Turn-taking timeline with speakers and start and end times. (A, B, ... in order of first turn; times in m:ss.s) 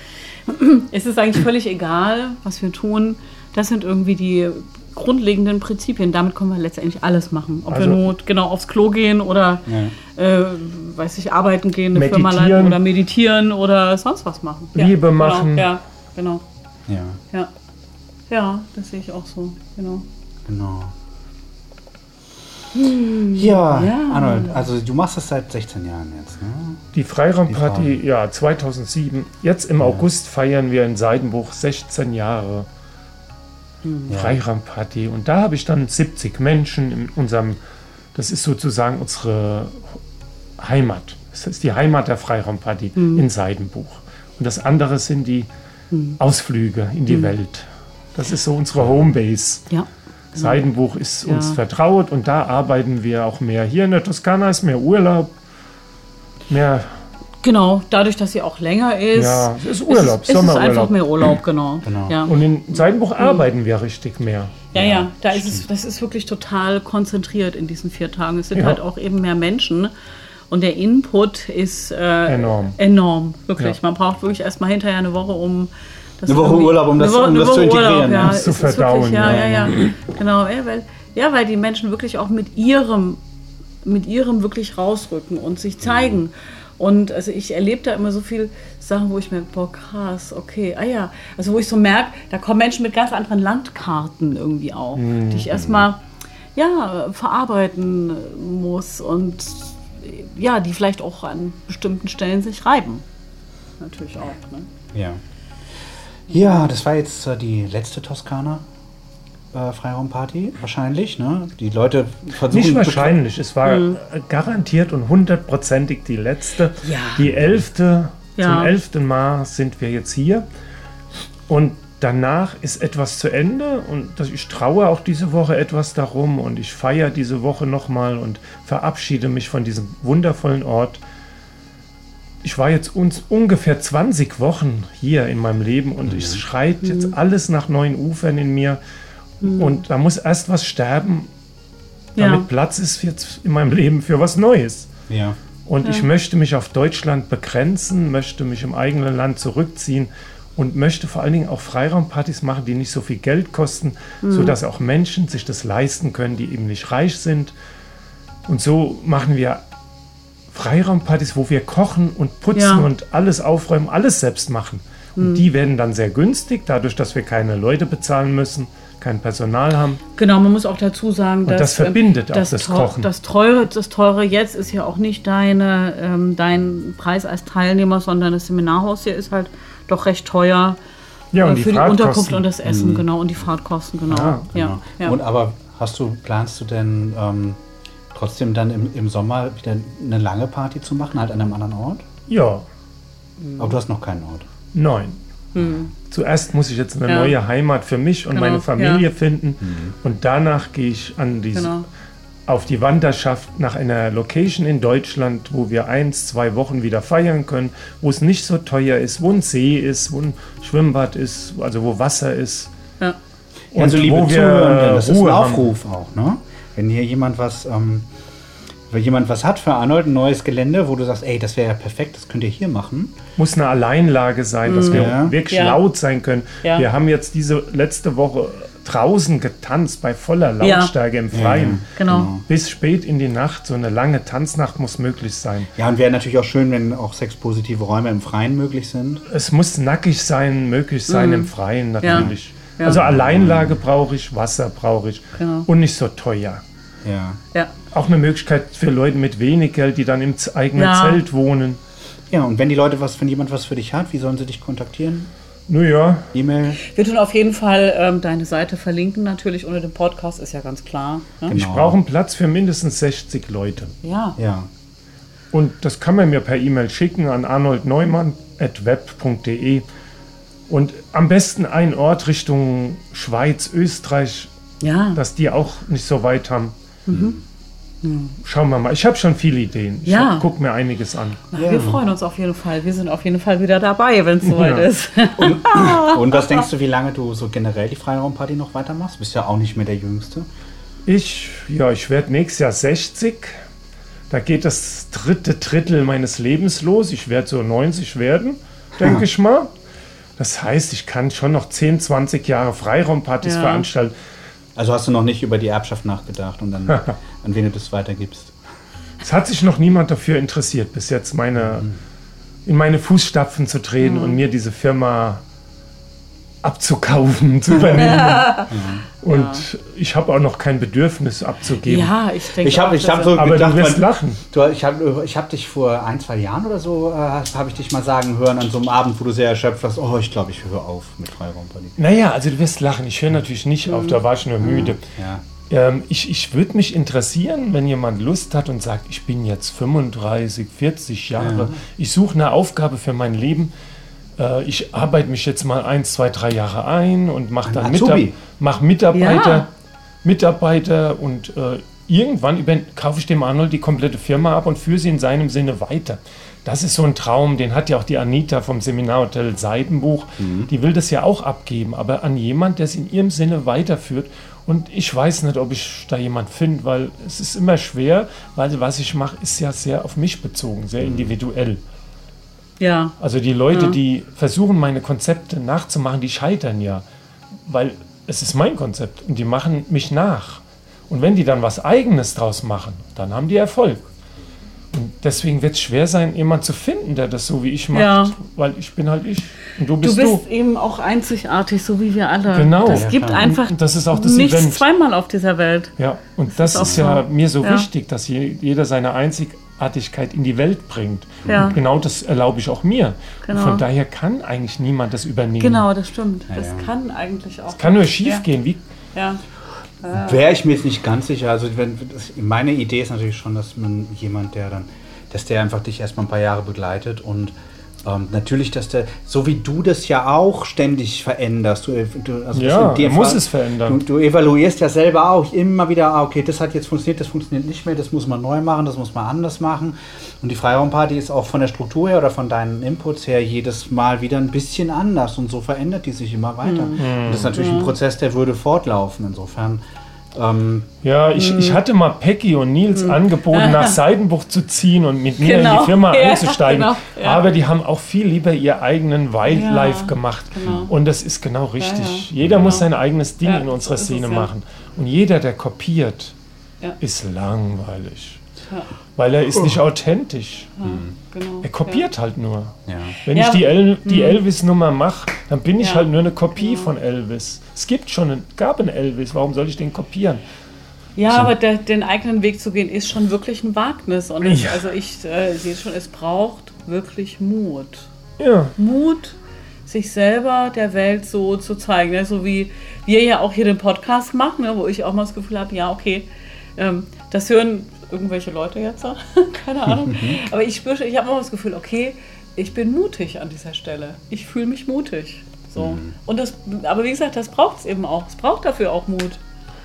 0:00.3-0:16.4 A
0:07.7-0:08.0 B
0:09.6-0:09.9 C
0:11.9-0:12.8 B
0:14.7-0:15.8 B
0:16.9-0:17.2 C
0:18.3-0:20.0 A
0:20.4-0:20.9 C
0:22.7-0:24.7 A
0:23.3-0:26.8 C
0:26.9-0:32.7 B
0:27.5-0:27.9 C
0:29.8-0:30.0 C
0:33.8-0:34.1 A
0:34.1-0:34.4 C
0:34.1-0:37.6 B
0:38.1-0:39.9 B
0:40.6-0:45.5 B
0:43.0-0:43.2 A
0:45.9-0:46.2 A
0:46.2-0:49.7 B
0:47.1-0:47.3 A
0:49.7-0:50.6 A
0:50.4-0:55.3 B
0:51.2-0:51.6 A
0:56.5-0:56.9 B
0:57.4-1:03.4 A
0:59.1-1:01.3 B
1:01.8-1:02.2 C
1:02.2-1:04.6 B
1:04.7-1:09.9 A
1:04.7-1:05.6 C
1:08.5-1:08.8 B
1:10.5-1:23.2 A
1:12.2-1:12.8 B
1:16.2-1:18.4 C
1:18.1-1:19.8 B
1:19.2-1:19.8 C
1:23.8-1:36.0 A
1:25.9-1:26.2 C
1:34.9-1:35.5 B
1:35.5-1:35.8 C
1:36.6-1:43.0 A
1:43.8-1:44.7 A
1:44.9-1:45.2 C
1:46.3-1:48.6 C
1:46.3-1:46.6 A
1:49.5-1:53.2 C
1:52.4-2:00.4 B
1:53.6-1:54.0 A
1:56.8-1:57.3 A
1:58.4-1:58.7 A
2:01.5-2:11.0 B
2:12.4-2:18.8 B
2:16.0-2:16.4 C
2:16.8-2:17.1 A
2:19.4-2:19.8 A
2:19.5-2:21.3 B
2:22.2-2:22.5 A
2:22.2-2:24.9 B
2:25.1-2:25.4 C
2:25.6-2:37.5 B
2:25.8-2:26.1 A
2:34.2-2:34.6 A
2:38.5-2:39.6 B
2:40.5-2:50.0 B
2:42.5-2:42.9 A
2:45.2-2:45.4 A
2:50.2-3:00.8 A
2:51.4-2:53.1 B
3:01.3-3:02.5 B
3:01.4-3:05.2 A
3:02.6-3:03.1 C
3:04.1-3:04.5 B
3:04.5-3:07.6 C
3:08.1-3:12.0 C
3:12.3-3:12.7 B
3:13.4-3:13.8 A
3:13.6-3:14.5 C
3:14.7-3:15.2 B
3:15.5-3:15.9 A
3:16.0-3:21.8 B
3:17.1-3:17.3 A
3:18.3-3:19.0 A
3:19.6-3:19.9 C
3:21.5-3:21.8 A
3:22.5-3:32.7 B
3:33.7-3:35.7 B
3:33.7-3:38.1 C
3:38.9-3:43.2 C
3:43.4-3:51.9 B
3:44.6-3:45.8 A
3:44.9-3:45.4 C
3:50.6-3:50.9 A
3:51.3-3:52.4 C
3:51.9-3:52.3 A
3:52.4-3:55.7 B
3:55.8-3:59.2 C
3:59.3-4:06.6 B
4:01.1-4:03.0 A
4:02.0-4:02.3 C
4:02.9-4:03.8 C
4:05.4-4:05.7 A
4:07.0-4:07.4 C
4:07.9-4:11.8 B
4:10.7-4:11.2 A
4:12.3-4:15.3 C
4:15.7-4:16.3 B
4:16.3-4:16.8 C
4:16.8-4:21.5 A
4:21.5-4:22.0 C
4:21.5-4:23.9 B
4:24.0-4:24.4 A
4:24.4-4:24.7 C
4:25.5-4:29.8 B
4:30.7-4:34.5 B
4:34.8-4:35.2 A
4:35.1-4:36.7 B
4:37.1-4:37.4 C
4:37.1-4:37.4 A
4:38.0-4:38.4 A
4:38.4-4:41.4 B
4:40.0-4:40.4 A
4:41.5-4:46.6 A
4:41.6-4:42.0 C
4:44.4-4:44.9 B
4:45.4-4:50.5 C
4:51.0-4:53.6 B
4:54.3-4:59.7 B
4:59.0-4:59.2 C
5:00.4-5:04.1 B
5:03.4-5:03.8 A
5:04.8-5:08.6 C
5:06.9-5:07.1 B
5:09.2-5:11.9 B
5:11.6-5:12.0 C
5:12.6-5:15.4 B
5:14.0-5:14.4 A
5:16.6-5:18.7 B
5:18.0-5:18.7 A
5:18.7-5:19.0 C
5:19.2-5:22.1 B
5:19.3-5:19.6 A
5:21.8-5:23.4 A
5:22.6-5:31.9 C
5:23.3-5:24.4 B
5:32.0-5:35.0 B
5:33.9-5:34.9 A
5:34.8-5:35.4 C
5:35.7-5:43.7 B
5:41.4-5:41.8 C
5:44.4-5:49.7 B
5:47.6-5:48.3 C
5:49.1-5:49.7 A
5:50.2-6:11.8 B
6:00.4-6:00.7 C
6:11.0-6:11.3 C
6:12.8-6:13.1 A
6:13.2-6:17.0 B
6:13.7-6:14.0 A
6:17.6-6:24.1 B
6:24.9-6:30.4 B
6:27.9-6:28.4 A
6:30.0-6:35.9 A
6:32.5-6:34.8 B
6:32.8-6:33.5 C
6:36.0-6:45.9 B
6:36.5-6:37.9 A
6:36.8-6:37.0 C
6:41.4-6:41.7 C
6:41.5-6:41.8 A
6:43.4-6:43.8 A
6:45.6-6:48.4 A
6:46.5-6:46.9 C
6:47.7-6:48.8 B
6:49.1-6:49.4 A
6:50.0-6:50.4 A
6:50.1-7:19.8 C
7:02.5-7:04.0 B
7:16.6-7:17.9 A
7:17.0-7:17.6 B
7:20.3-7:20.9 C
7:21.0-7:36.3 B
7:21.3-7:21.8 A
7:23.0-7:24.0 A
7:25.4-7:27.4 A
7:29.4-7:30.9 A
7:31.8-7:32.8 A
7:32.4-7:32.8 C
7:33.4-7:34.5 A
7:37.0-7:38.4 B
7:39.2-7:40.7 B
7:40.8-7:42.1 A
7:40.8-7:41.1 C
7:41.6-7:50.4 B
7:42.9-7:43.2 C
7:43.3-7:44.4 A
7:45.8-7:46.9 A
7:51.2-7:58.1 A
7:54.4-7:54.8 B
7:58.4-7:58.7 B
7:58.8-8:19.4 A
8:09.9-8:10.4 C
8:15.8-8:16.1 C